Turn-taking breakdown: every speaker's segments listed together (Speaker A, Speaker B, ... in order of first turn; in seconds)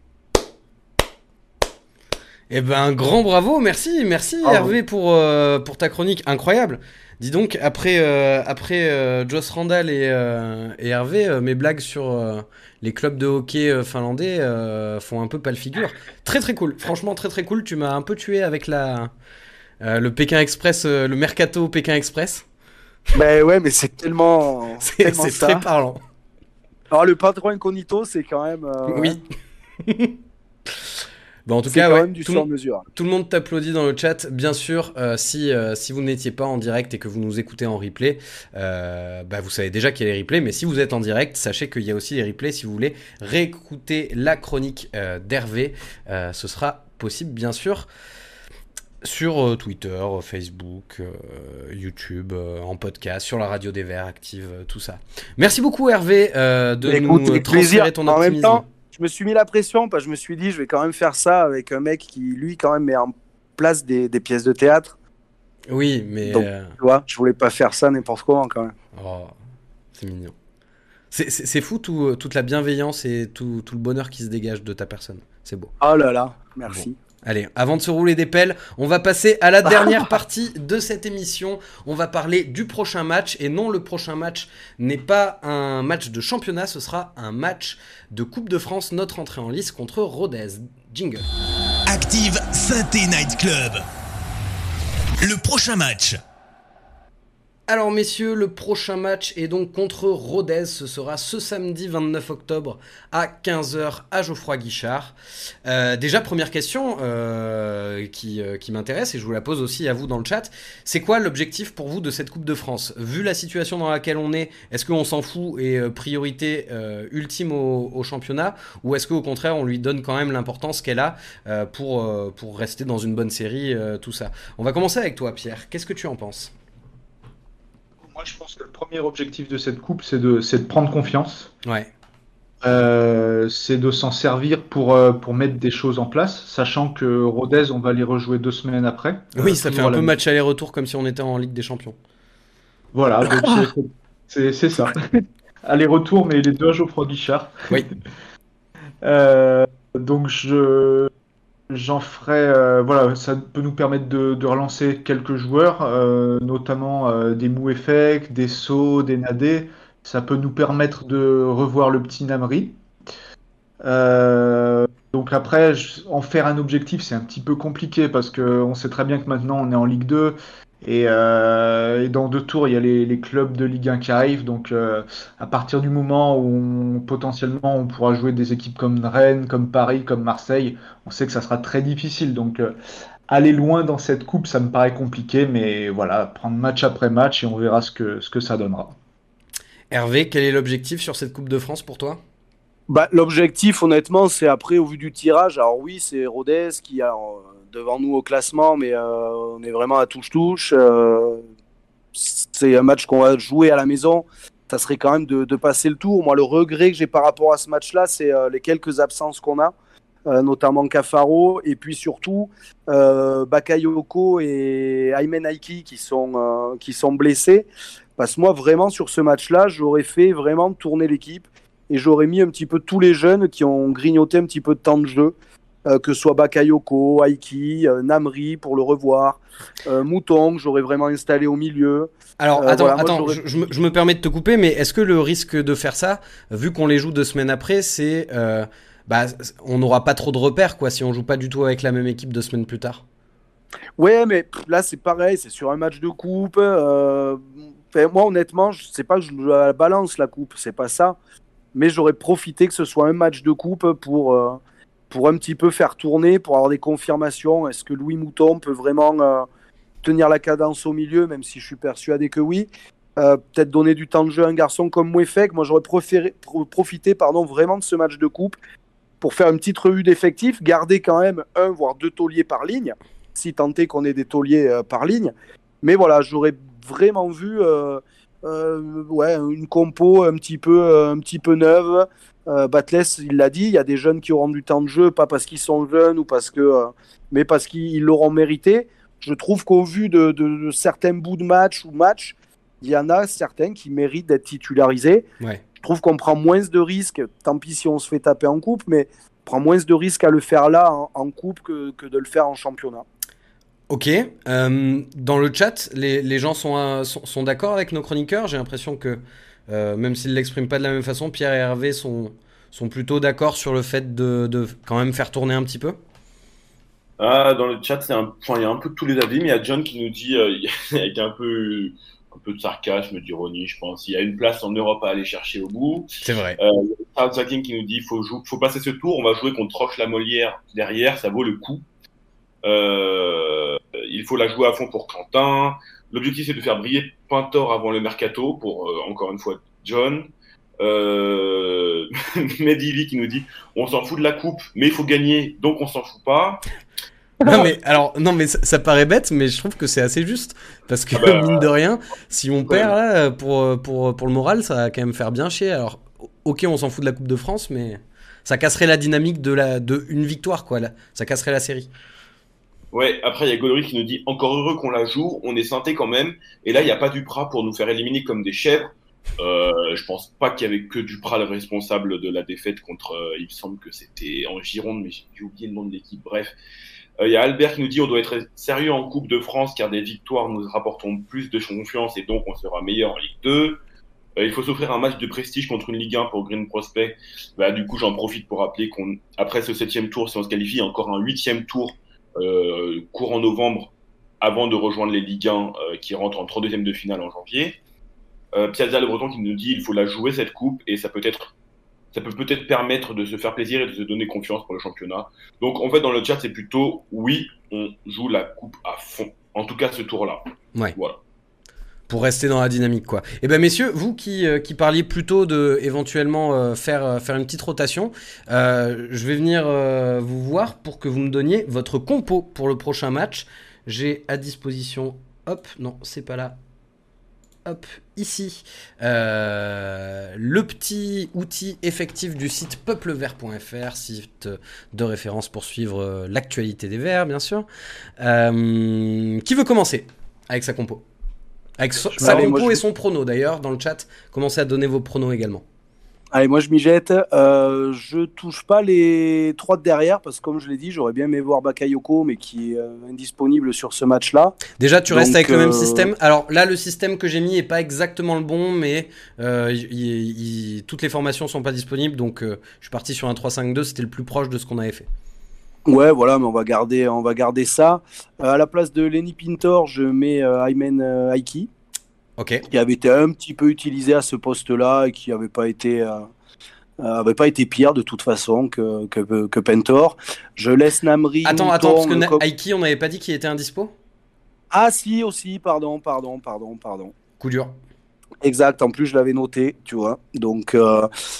Speaker A: 2.5-19.1, 19.8-22.4, 24.8-26.0, 28.9-29.2, 29.8-30.2, 31.4-47.9, 49.0-58.6, 65.7-66.7, 68.9-69.3, 69.9-70.3, 71.1-75.7, 76.7-91.3, 97.7-126.5, 131.6-131.9, 139.3-141.9, 189.9-192.2, 232.4-243.0, 303.9-316.0, 326.2-326.6, 347.4-361.9, 412.1-426.6, 427.6-437.6, 438.2-441.0, 441.8-445.6, 454.8-465.1, 472.4-472.6, 481.4-483.9, 487.4-487.7
Speaker B: 4.4-4.7, 23.1-25.6, 26.9-29.2, 31.7-32.9, 56.8-64.9, 66.2-68.7, 75.8-76.9, 79.7-80.0, 192.9-201.4, 202.1-209.7, 210.3-225.3, 225.8-233.4, 244.0-251.2, 251.7-254.6, 255.1-259.4, 260.0-268.5, 269.2-295.2, 295.8-303.0, 442.2-442.8, 446.3-456.1, 465.9-471.7, 472.7-476.2, 477.0-482.4, 484.7-487.1, 488.4-491.1
Speaker C: 91.8-93.8, 95.2-96.2
Speaker D: 128.1-131.5, 132.6-140.1, 142.9-147.8, 149.0-151.1, 151.7-162.8, 163.8-182.7, 183.3-188.9, 442.2-442.5
Speaker E: 317.2-331.8, 332.6-340.3, 340.8-346.6, 351.1-351.7, 362.9-376.5, 377.2-383.8, 384.4-397.8, 398.5-401.5, 402.1-410.4, 410.9-411.2